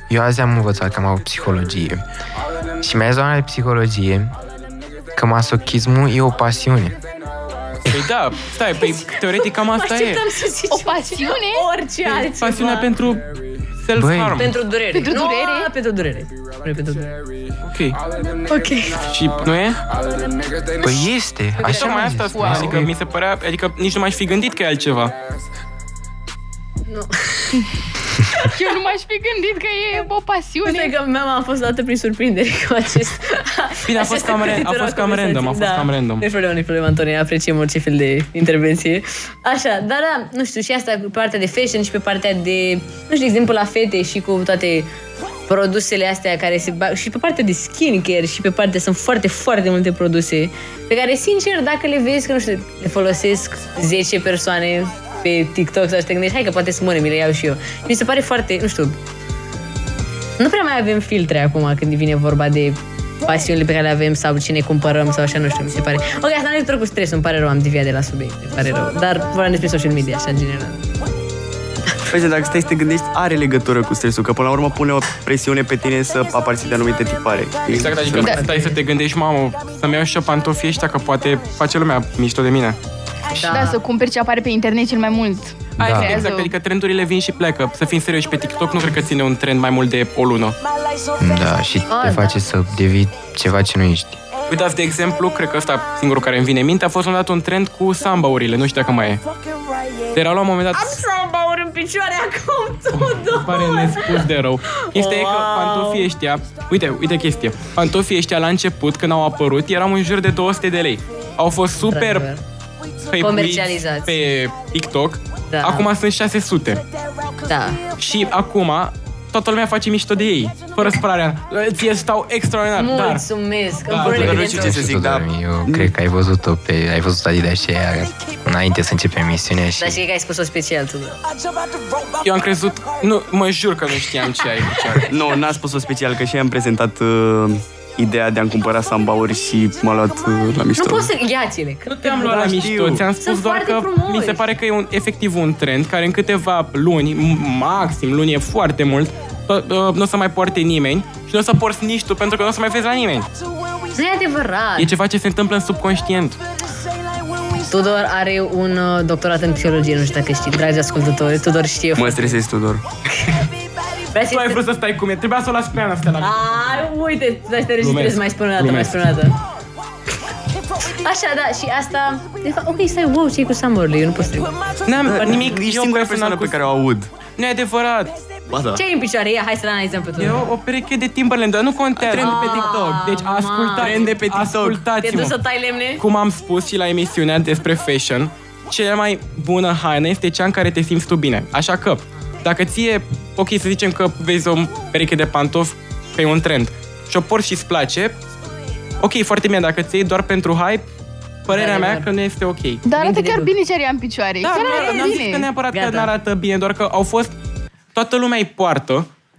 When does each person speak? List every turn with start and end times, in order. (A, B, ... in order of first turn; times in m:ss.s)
0:00.1-0:02.0 A
0:02.8-0:04.3 A
0:05.2-0:07.0 A
0:07.9-0:10.2 B
0:08.8-0:12.9 C
0:10.7-0:11.6 D
0:12.1-0:14.5 B
0:13.9-0:14.4 A
0:14.4-0:17.2 C
0:14.9-0:15.7 D
0:17.6-0:18.0 B
0:18.5-0:19.1 C
0:19.1-0:19.8 B
0:20.8-0:22.9 A
0:21.6-0:22.1 C
0:21.6-0:25.1 B
0:22.4-0:22.8 D
0:26.9-0:27.7 C
0:28.5-0:30.9 D
0:30.6-0:44.9 C
0:33.9-0:36.2 B
0:45.5-0:59.0 C
1:00.4-1:10.8 C
1:12.1-1:18.4 E
1:17.7-1:22.8 B
1:18.3-1:18.7 C
1:23.3-1:23.8 C
1:23.4-1:26.5 D
1:25.8-1:30.6 B
1:25.8-1:26.2 A
1:31.2-1:34.2 A
1:31.9-1:32.3 C
1:34.5-1:39.2 B
1:40.1-1:41.0 B
1:40.7-1:46.1 C
1:42.9-1:52.3 B
1:51.8-1:52.4 C
1:53.1-1:56.8 B
1:53.2-1:54.2 C
1:55.5-1:55.8 C
1:57.4-1:57.8 C
1:58.0-2:03.2 B
2:02.8-2:04.8 C
2:03.9-2:04.3 B
2:04.0-2:05.9 E
2:04.1-2:10.0 A
2:09.8-2:11.2 C
2:12.2-2:15.1 B
2:15.1-2:21.1 E
2:20.8-2:22.6 C
2:21.9-2:33.3 B
2:22.3-2:23.0 E
2:23.2-2:24.4 C
2:33.9-2:34.9 C
2:34.8-2:36.4 B
2:37.7-2:42.4 C
2:41.9-2:42.8 E
2:44.1-2:44.6 C
2:44.3-2:46.8 B
2:46.2-2:49.4 C
2:47.8-2:49.0 B
2:50.8-2:54.6 C
2:54.8-2:56.6 B
2:55.0-2:57.1 E
2:57.3-2:58.2 B
2:58.5-2:58.8 E
2:58.7-3:00.4 C
3:00.2-3:05.4 B
3:02.0-3:02.9 E
3:02.1-3:04.2 C
3:03.8-3:04.8 E
3:05.0-3:06.0 C
3:06.0-3:18.2 B
3:19.0-3:20.9 B
3:21.4-3:22.8 B
3:21.5-3:22.1 C
3:22.8-3:25.5 D
3:22.9-3:23.5 C
3:24.4-3:27.3 B
3:24.6-3:25.2 C
3:25.7-3:26.1 C
3:27.9-3:29.1 B